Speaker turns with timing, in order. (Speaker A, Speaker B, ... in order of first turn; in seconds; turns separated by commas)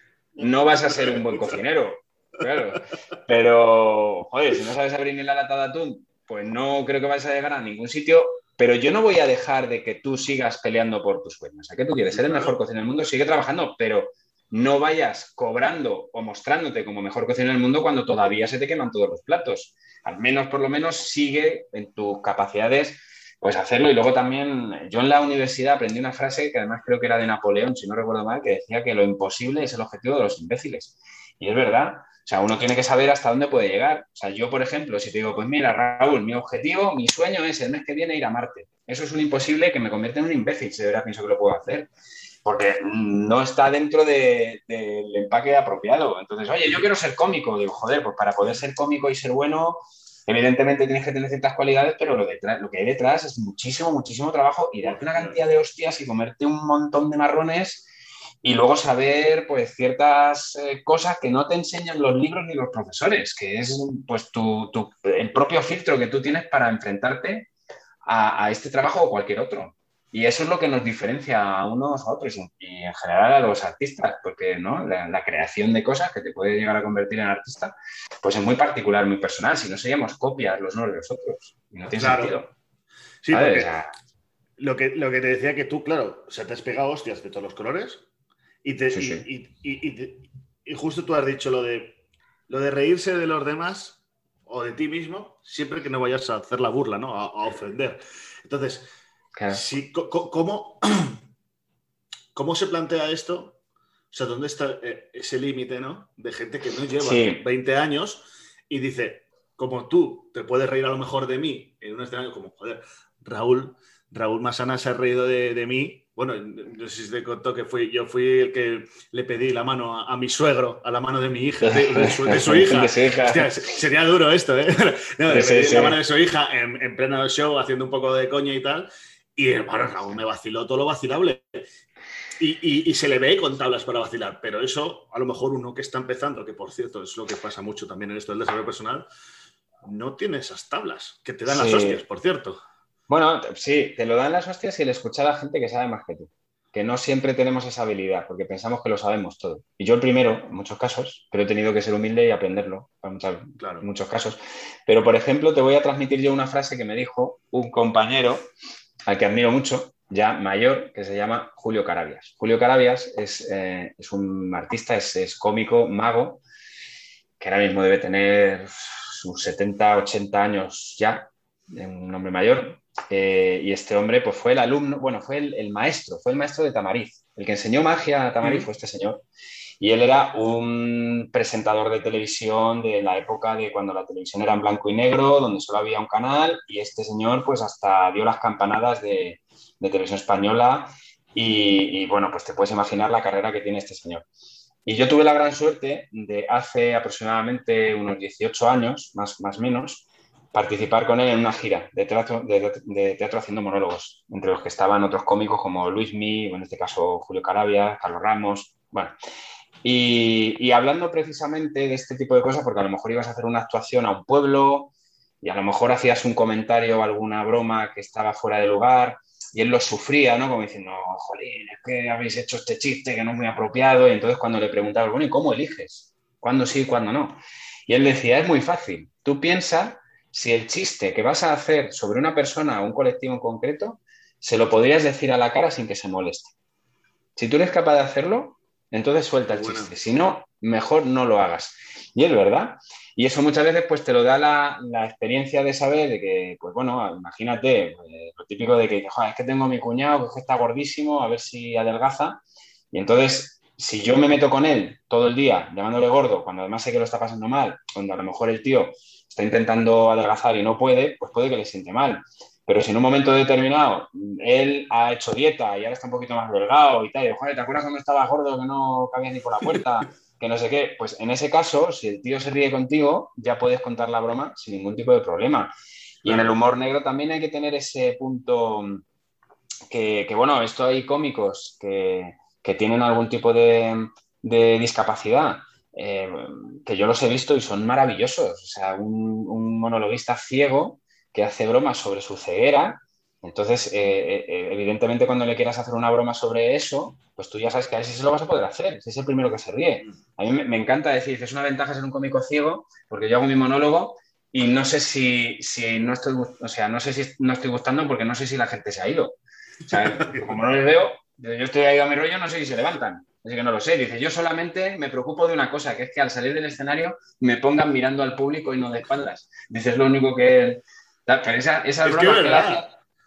Speaker A: 0.4-1.6, Speaker B: 0.4-41.9, Speaker A: 12.1-12.5, Speaker B: 42.4-57.9, Speaker A: 54.8-55.4, Speaker B: 58.4-67.5, Speaker B: 68.0-82.5, Speaker A: 82.0-82.3, Speaker A: 83.2-83.7, Speaker B: 83.3-83.9, Speaker A: 84.6-88.0, Speaker A: 88.6-98.9, Speaker B: 88.9-89.3, Speaker B: 99.4-99.6, Speaker A: 99.5-101.2, Speaker A: 102.3-103.6, Speaker A: 104.1-131.6, Speaker B: 107.0-107.4, Speaker B: 121.6-123.5, Speaker B: 125.3-126.0, Speaker A: 132.4-139.1, Speaker A: 139.8-142.6, Speaker B: 141.4-142.0, Speaker B: 143.1-158.5, Speaker A: 153.6-153.9, Speaker B: 159.1-166.4, Speaker B: 167.4-179.2, Speaker B: 179.8-194.2, Speaker B: 194.8-209.1, Speaker B: 209.8-214.9, Speaker B: 215.4-236.5, Speaker B: 237.4-252.4, Speaker A: 239.5-239.9, Speaker B: 252.9-275.7, Speaker A: 276.2-276.5, Speaker B: 276.2-279.0, Speaker B: 279.9-309.4, Speaker B: 309.9-322.9, Speaker A: 309.9-310.6, Speaker A: 322.0-322.8